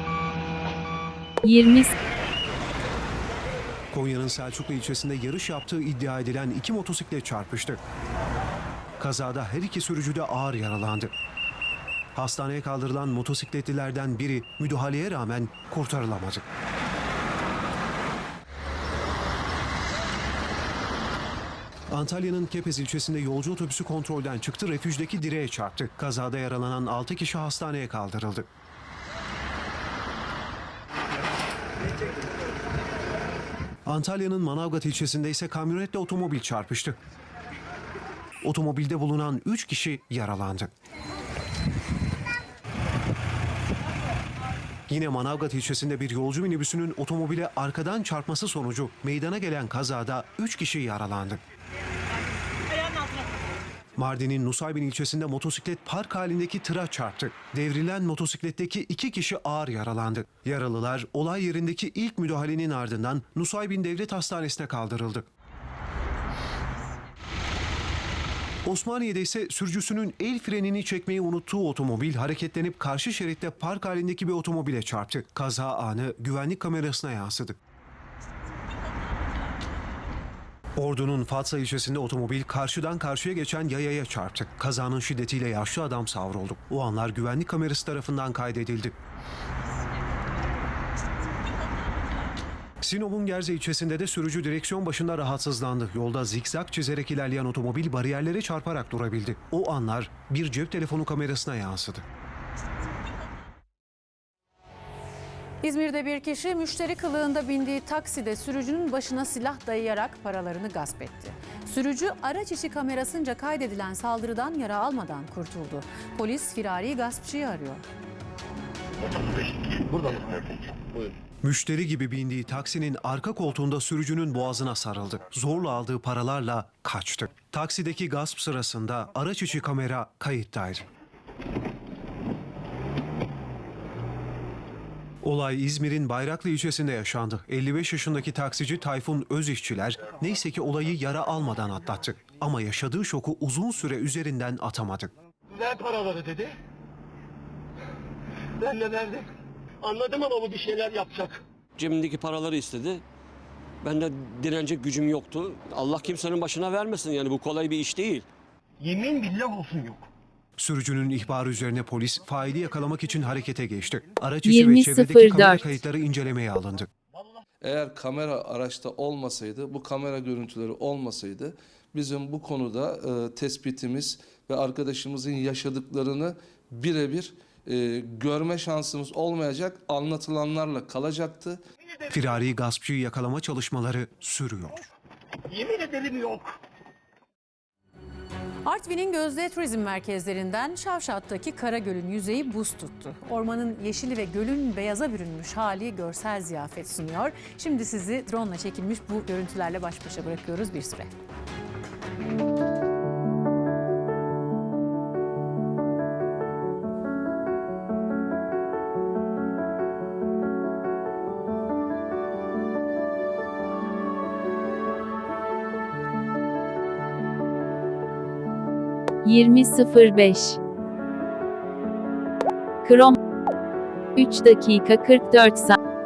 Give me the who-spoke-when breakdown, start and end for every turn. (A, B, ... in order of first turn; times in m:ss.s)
0:01.4-0:01.9 A
0:03.9-0:07.8 B
0:09.0-0:11.1 B
0:12.2-0:16.4 B
0:21.9-0:28.5 B
0:33.9-0:37.0 B
0:38.4-0:40.7 B
0:44.9-0:51.4 B
0:54.0-1:05.2 B
1:08.7-1:17.6 B
1:20.8-1:29.0 B
1:32.8-1:42.0 B
1:45.6-1:57.8 C
1:59.5-2:01.1 D
2:01.4-2:10.9 B
2:15.2-2:25.1 B
2:25.5-2:26.6 D
2:28.6-2:29.3 D
2:29.8-2:31.4 D
2:31.8-2:33.0 E
2:33.8-2:38.3 E
2:38.8-2:40.1 D
2:40.6-2:46.9 B
2:44.4-2:45.6 A
2:47.6-3:01.6 F
3:02.1-3:04.9 B
3:05.5-3:06.6 D
3:08.7-3:21.1 C
3:39.2-3:40.6 A
3:42.8-3:43.2 A
3:44.2-3:45.8 A